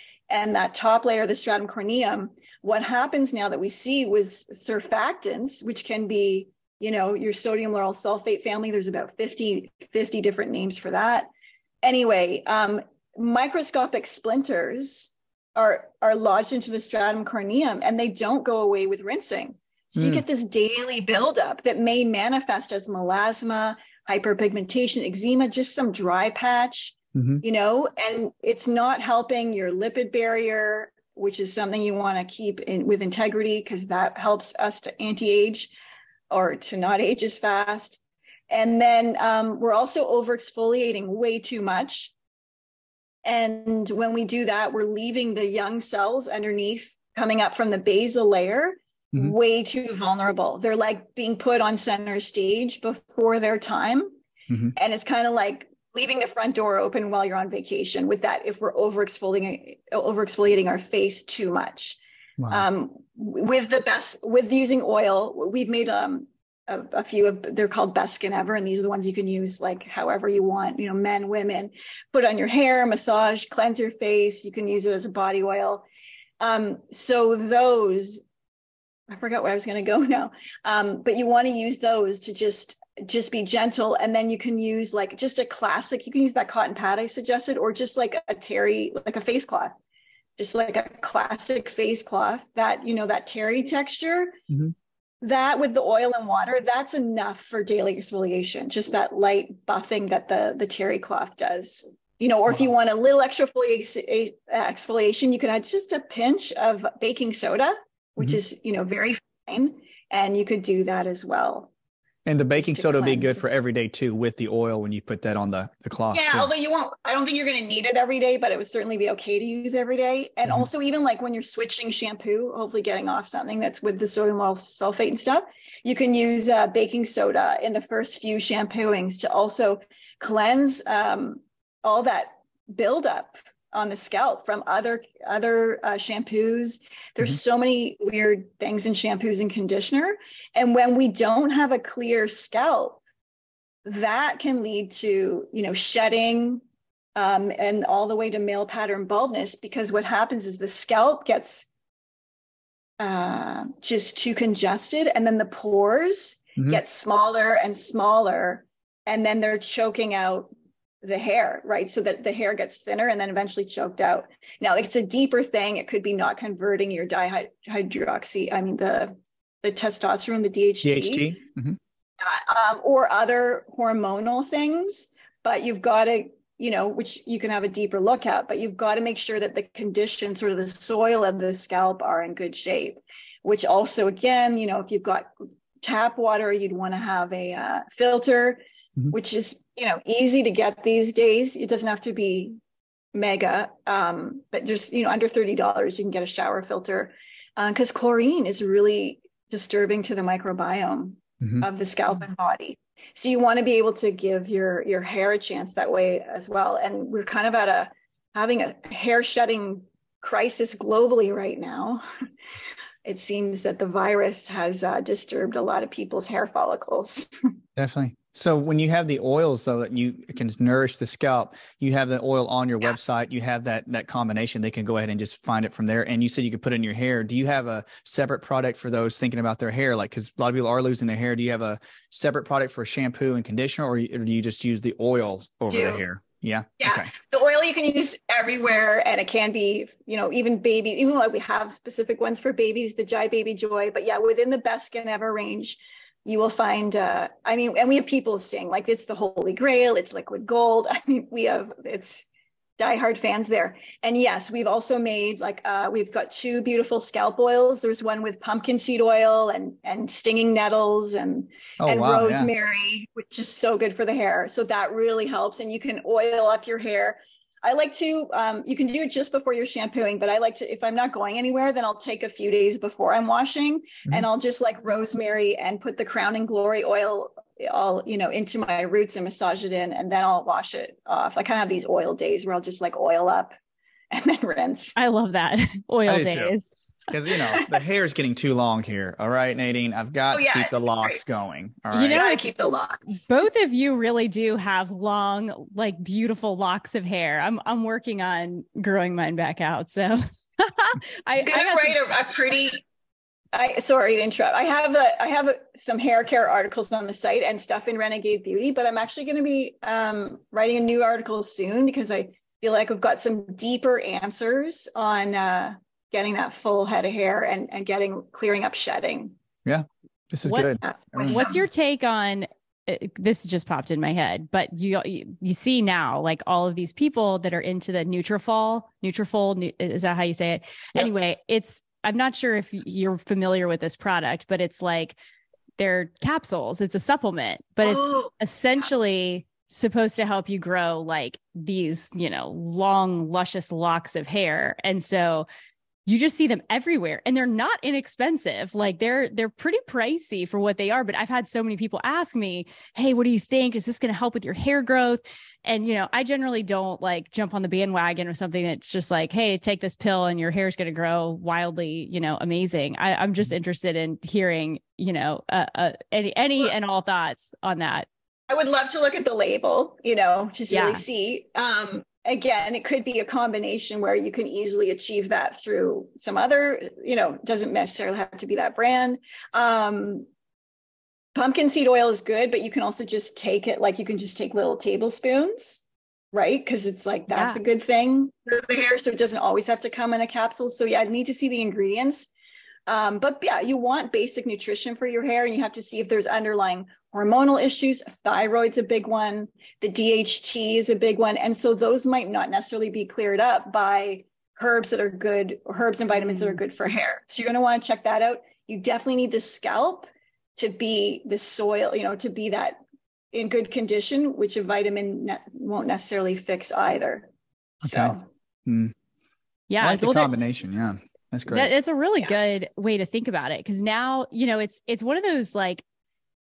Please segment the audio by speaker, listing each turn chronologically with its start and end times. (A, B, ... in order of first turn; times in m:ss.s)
0:00.3-0:11.3 A
0:11.8-0:35.7 A
0:20.0-0:20.2 B
0:27.2-0:27.4 B
0:36.3-0:42.1 A
0:43.2-0:54.2 A
0:54.8-1:02.0 A
1:02.4-1:02.6 B
1:02.5-1:15.8 A
1:16.4-1:18.2 A
1:19.1-1:29.8 A
1:30.4-1:34.4 A
1:35.2-1:51.7 A
1:52.2-1:56.5 B
1:52.6-1:53.4 A
1:56.1-2:23.0 A
2:23.8-2:26.6 A
2:27.2-2:31.7 A
2:33.0-2:40.5 A
2:41.0-2:51.4 A
2:50.8-2:51.8 B
2:52.2-3:05.3 A
3:05.8-3:12.6 A
3:13.1-3:32.0 A
3:33.0-3:37.3 A
3:37.8-3:57.1 B
3:55.7-3:56.0 A
3:56.8-4:12.2 A
4:12.8-4:43.5 A
4:21.8-4:22.5 B
4:44.1-4:45.0 A
4:45.0-4:46.7 C
4:46.1-4:46.6 B
4:47.1-4:52.2 B
4:50.3-4:51.2 A
4:51.9-4:52.5 C
4:52.1-4:53.3 A
4:53.2-5:02.0 C
5:01.4-5:02.8 A
5:03.5-5:19.4 A
5:19.6-5:21.4 B
5:20.8-5:21.6 A
5:21.3-5:35.2 C
5:35.8-5:45.5 C
5:37.8-5:38.3 A
5:46.1-6:08.1 C
6:08.5-6:20.3 A
6:10.7-6:11.0 C
6:21.4-6:32.3 A
6:27.3-6:27.6 C
6:32.9-6:52.8 A
6:46.2-6:46.6 C
6:53.3-6:57.3 A
6:57.8-6:58.3 A
6:57.8-6:58.9 B
6:59.7-7:00.3 C
6:59.8-7:01.7 B
7:01.5-7:05.8 C